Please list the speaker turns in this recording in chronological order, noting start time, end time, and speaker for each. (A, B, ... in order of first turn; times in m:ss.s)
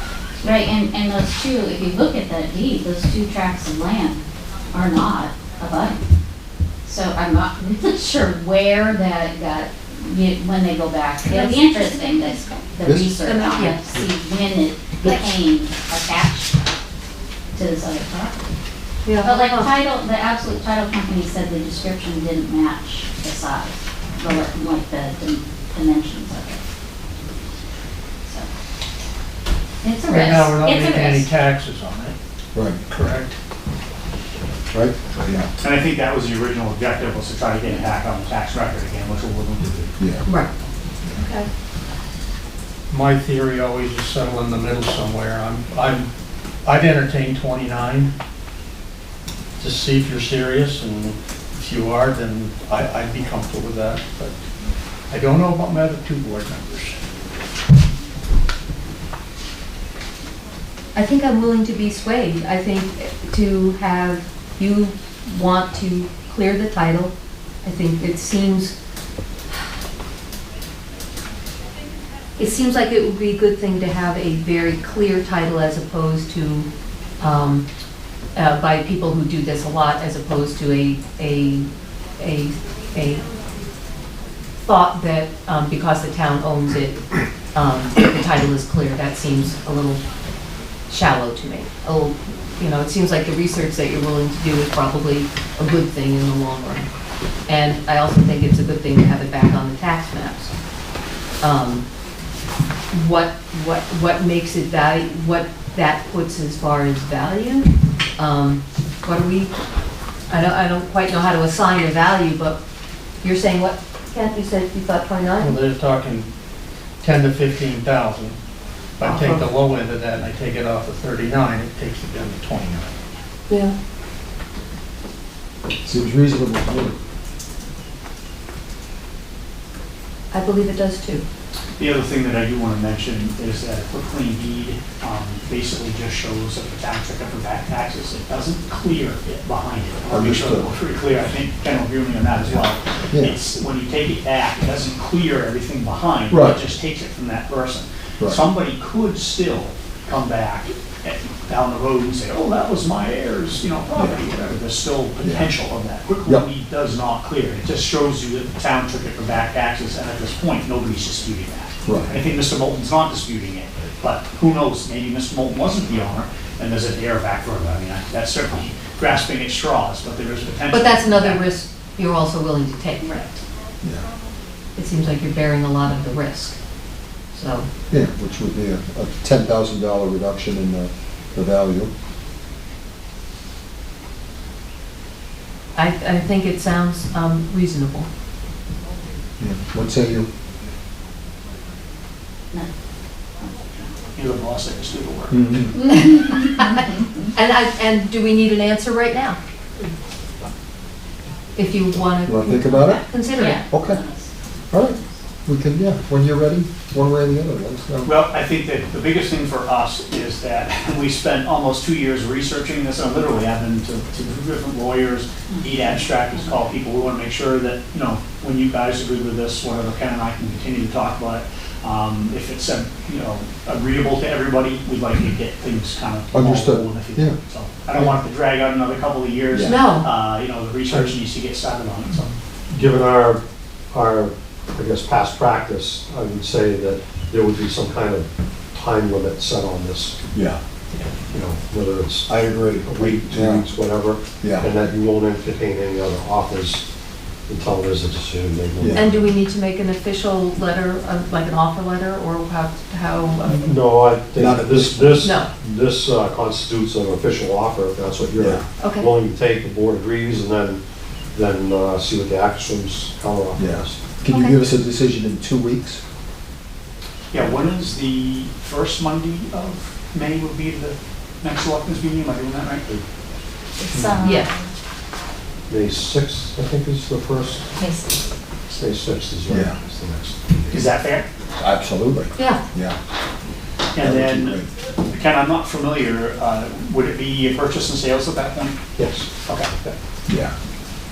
0:00.4-0:04.2 A
0:04.7-0:05.9 A
0:06.8-0:16.5 A
0:11.3-0:12.5 B
0:12.8-0:13.1 C
0:13.0-0:13.8 B
0:17.5-0:18.5 A
0:19.0-0:19.7 B
0:19.2-0:26.6 A
0:29.8-0:31.2 A
0:30.1-0:30.5 B
0:30.1-0:32.1 D
0:32.5-0:32.8 C
0:32.9-0:33.4 D
0:34.7-0:35.5 C
0:35.6-0:40.0 E
0:40.0-0:40.2 C
0:41.2-0:41.5 B
0:42.9-0:46.1 D
0:46.6-0:48.1 D
0:49.6-0:54.3 D
0:55.1-0:57.0 D
1:00.9-1:07.1 B
1:07.6-1:08.7 B
1:12.4-1:16.7 B
1:17.2-1:17.6 B
1:18.3-1:23.2 B
1:24.6-1:30.0 B
1:30.9-1:36.9 B
1:37.5-1:40.5 B
1:41.4-1:41.9 B
1:42.9-1:47.7 B
1:48.2-1:49.5 B
1:50.3-1:52.6 B
1:53.2-1:55.6 B
1:55.4-1:56.3 D
1:57.0-1:58.4 D
1:59.0-2:02.9 D
1:59.0-1:59.5 B
2:03.5-2:03.7 B
2:05.8-2:06.9 C
2:10.3-2:11.2 B
2:11.8-2:51.5 E
2:20.1-2:20.7 C
2:23.1-2:23.4 C
2:26.3-2:26.6 C
2:28.2-2:28.4 C
2:35.2-2:35.5 C
2:41.8-2:42.1 C
2:50.7-2:53.2 B
2:54.8-2:56.6 B
2:57.3-2:57.7 B
2:57.9-3:01.9 C
3:05.7-3:08.1 B
3:09.4-3:10.3 C
3:14.2-3:15.4 E
3:15.3-3:16.0 C
3:15.8-3:16.8 B
3:17.3-3:19.4 B
3:21.6-3:23.6 B
3:22.2-3:23.0 C
3:23.4-3:24.3 A
3:23.7-3:24.0 C
3:24.7-3:28.1 C
3:28.0-3:52.3 E
3:46.3-3:47.4 C
3:49.5-3:49.9 C
3:49.6-3:50.1 B
3:52.7-3:53.4 F
3:53.9-4:00.2 F
4:00.3-4:00.6 C
4:01.3-4:06.8 F
4:02.3-4:03.7 C
4:04.4-4:04.7 C
4:07.5-4:09.3 F
4:08.8-4:09.1 C
4:08.9-4:13.8 B
4:13.4-4:20.8 F
4:14.3-4:15.3 C
4:15.2-4:15.5 B
4:18.4-4:18.6 C
4:18.8-4:19.1 B
4:21.3-4:24.0 F
4:23.6-4:26.0 C
4:24.3-4:24.6 B
4:27.3-4:32.9 E
4:33.8-4:34.6 A
4:34.2-4:34.5 B
4:35.7-4:37.7 F
4:37.8-4:38.2 A
4:38.7-4:40.5 F
4:39.5-4:39.8 C
4:40.7-4:41.2 E
4:41.6-4:43.0 C
4:43.9-4:48.8 E
4:44.0-4:44.7 C
4:49.0-4:49.3 F
4:49.4-4:49.9 E
4:50.3-4:50.5 C